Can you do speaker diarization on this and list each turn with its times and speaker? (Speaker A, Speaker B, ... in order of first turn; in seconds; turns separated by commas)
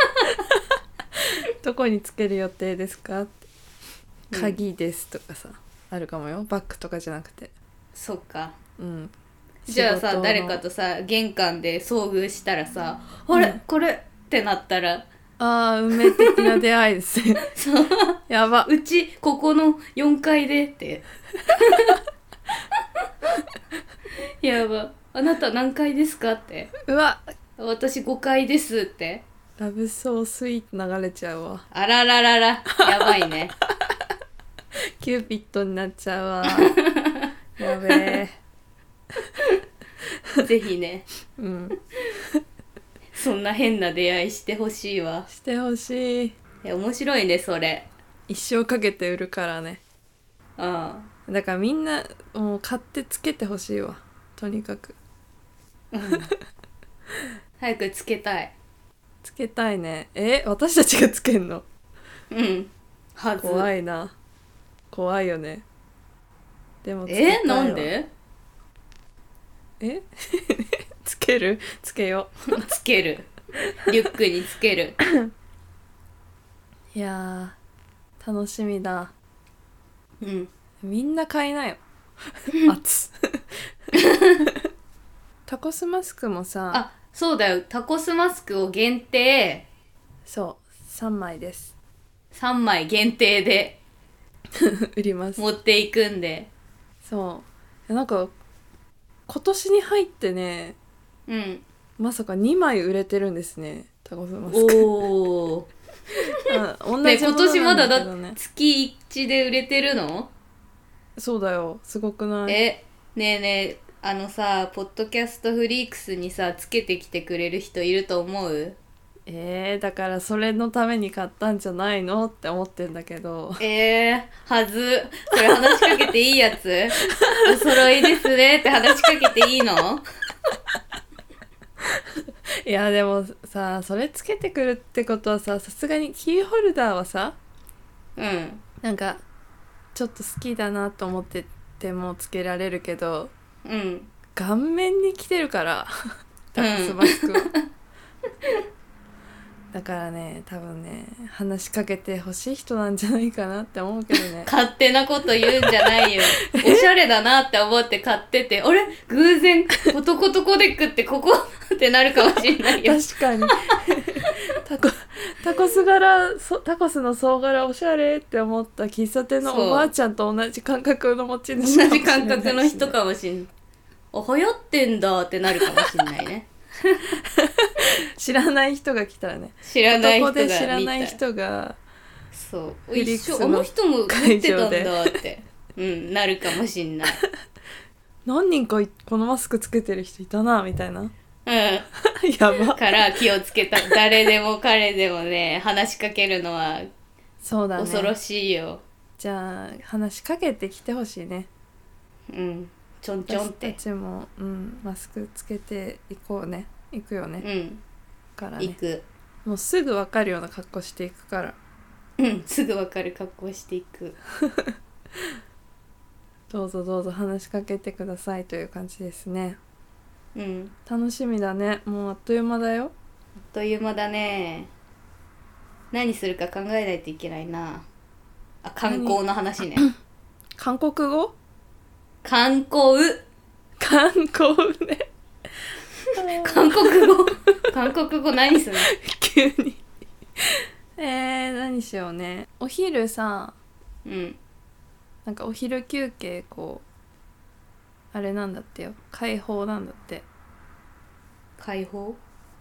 Speaker A: 1.6-3.4, Speaker B: 4.3-4.6, Speaker A: 4.3-7.5, Speaker B: 7.9-8.6, Speaker A: 8.8-9.1, Speaker A: 9.7-10.6, Speaker B: 9.7-15.1, Speaker A: 13.3-13.6, Speaker A: 15.4-17.5, Speaker B: 16.0-16.5, Speaker B: 17.5-22.0, Speaker A: 18.3-18.7, Speaker B: 24.4-26.7, Speaker A: 26.8-27.3, Speaker B: 27.6-29.2, Speaker A: 29.6-31.6, Speaker B: 31.7-33.5, Speaker A: 35.0-36.8, Speaker B: 36.5-37.3, Speaker A: 37.6-38.4, Speaker B: 37.9-38.1, Speaker B: 40.4-41.1, Speaker A: 41.4-41.8, Speaker B: 43.1-45.3, Speaker A: 45.3-46.3, Speaker B: 46.6-47.9, Speaker A: 48.3-49.8, Speaker B: 50.6-51.1, Speaker A: 51.3-55.0, Speaker B: 55.9-56.3, Speaker B: 57.6-58.5, Speaker A: 59.2-61.6, Speaker B: 62.3-63.7, Speaker A: 63.4-64.1, Speaker A: 64.9-65.6, Speaker A: 66.8-67.9, Speaker B: 67.1-68.1, Speaker A: 69.8-72.7, Speaker B: 72.5-73.3, Speaker B: 73.8-75.0, Speaker A: 76.9-77.5, Speaker A: 78.2-79.1, Speaker B: 80.2-80.5, Speaker A: 80.8-81.8, Speaker A: 82.7-83.6, Speaker B: 83.9-84.4, Speaker A: 85.5-86.8, Speaker B: 86.7-89.7, Speaker A: 90.2-91.7, Speaker B: 92.3-93.8, Speaker A: 94.5-95.4, Speaker B: 95.4-96.5, Speaker A: 97.0-98.3, Speaker A: 99.3-100.8, Speaker B: 101.3-101.6, Speaker A: 102.0-104.9, Speaker B: 104.5-105.7, Speaker A: 106.5-108.4, Speaker B: 107.0-110.3, Speaker A: 111.2-112.6, Speaker B: 112.5-118.8, Speaker A: 119.2-123.6, Speaker B: 123.6-130.0, Speaker A: 127.1-127.7, Speaker A: 132.6-137.3, Speaker B: 138.2-138.6, Speaker A: 138.8-139.2, Speaker A: 139.9-143.3, Speaker B: 143.6-144.1, Speaker A: 144.3-145.9, Speaker A: 146.5-147.5, Speaker B: 146.6-147.6, Speaker A: 149.7-154.5, Speaker B: 154.4-163.0, Speaker A: 155.6-156.9, Speaker A: 162.8-173.0, Speaker B: 169.4-169.9, Speaker B: 171.6-173.5, Speaker B: 174.1-177.2, Speaker A: 177.3-181.8, Speaker B: 179.6-181.2, Speaker B: 182.3-187.2, Speaker A: 182.9-185.1, Speaker A: 188.2-191.1, Speaker B: 191.4-191.9, Speaker A: 192.0-193.2, Speaker B: 192.8-196.9, Speaker A: 197.4-198.1, Speaker B: 197.8-198.8, Speaker A: 199.2-201.5, Speaker B: 202.3-203.8, Speaker A: 203.3-207.4, Speaker B: 207.4-207.8, Speaker A: 208.4-208.8, Speaker B: 208.6-209.1, Speaker A: 209.4-211.6, Speaker B: 212.2-214.2, Speaker A: 214.4-214.7, Speaker A: 216.5-219.6, Speaker B: 220.3-220.7, Speaker A: 220.9-222.9, Speaker B: 223.5-224.7, Speaker B: 225.9-227.8, Speaker B: 228.6-229.9, Speaker A: 228.9-229.2, Speaker A: 230.6-231.3, Speaker B: 232.2-233.2, Speaker A: 233.8-235.1, Speaker B: 236.1-238.9, Speaker A: 236.1-237.1, Speaker A: 238.7-239.8, Speaker A: 241.0-243.6, Speaker B: 244.0-244.4, Speaker A: 245.2-246.8, Speaker A: 248.1-250.2, Speaker B: 251.6-252.2